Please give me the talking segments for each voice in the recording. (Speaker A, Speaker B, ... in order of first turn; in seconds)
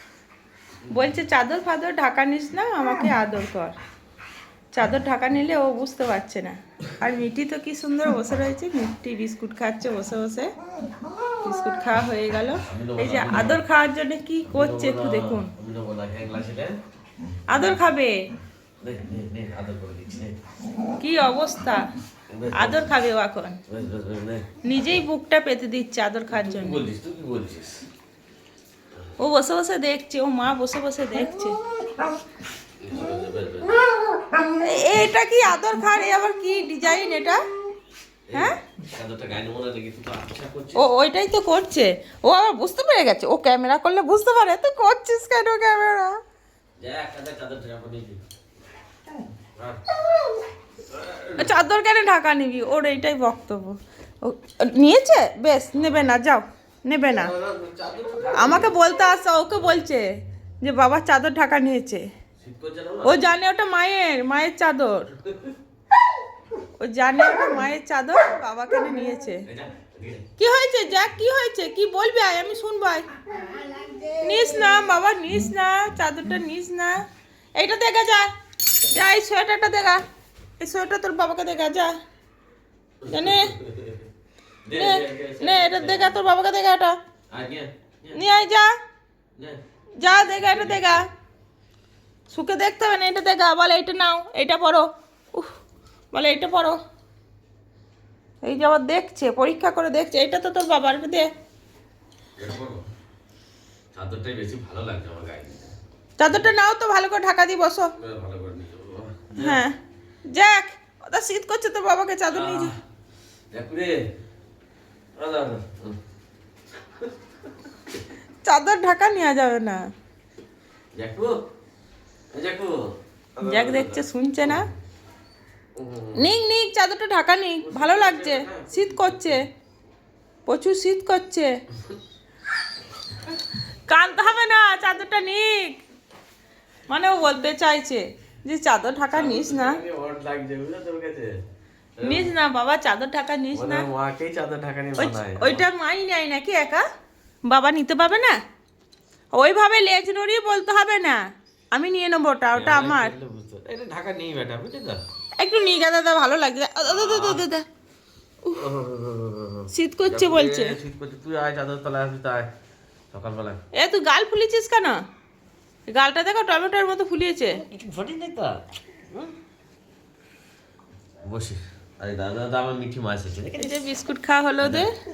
Speaker A: 0.9-3.7, 4.7-10.5, 11.4-15.5, 17.5-18.3, 21.0-21.9, 22.5-23.6, 24.6-26.9, 29.2-31.6, 34.5-37.4, 40.7-46.2, 51.4-57.3, 58.3-62.1, 63.0-65.1, 66.8-69.5, 70.4-73.1, 74.2-77.0, 77.5-78.3, 78.9-80.0, 80.6-81.9, 83.1-83.5, 84.7-87.0, 88.1-88.7, 90.0-91.1, 92.3-95.5, 96.1-96.8, 98.4-101.3, 106.2-107.9, 109.3-109.8, 110.3-112.7, 118.4-119.8, 123.4-124.7, 126.2-129.4, 130.4-131.5, 133.9-135.8, 136.9-139.8, 142.0-143.8, 145.0-146.8, 147.5-148.4, 149.3-151.2, 151.7-153.1, 155.4-157.6, 159.7-160.8, 163.7-165.0, 165.9-167.6, 173.6-174.9
Speaker B: 12.6-13.6, 14.4-16.8, 18.8-20.4, 22.3-22.9, 23.7-24.5, 26.3-27.9, 32.8-33.8, 38.3-40.8, 46.8-48.2, 49.6-49.8, 50.9-51.5, 55.7-56.1, 57.1-58.8, 62.4-63.2, 69.5-70.3, 83.0-84.0, 84.6-86.2, 87.3-88.2, 90.1-91.0, 102.4-102.8, 103.9-105.7, 108.0-109.7, 112.3-112.8, 113.5-114.0, 115.2-116.0, 120.9-121.4, 122.3-124.7, 125.8-126.2, 127.6-129.4, 139.1-141.4, 141.9-142.3, 143.5-145.7, 152.5-155.0, 156.8-157.4, 158.4-162.5, 163.1-163.6, 167.5-169.3, 171.2-173.8, 174.6-174.9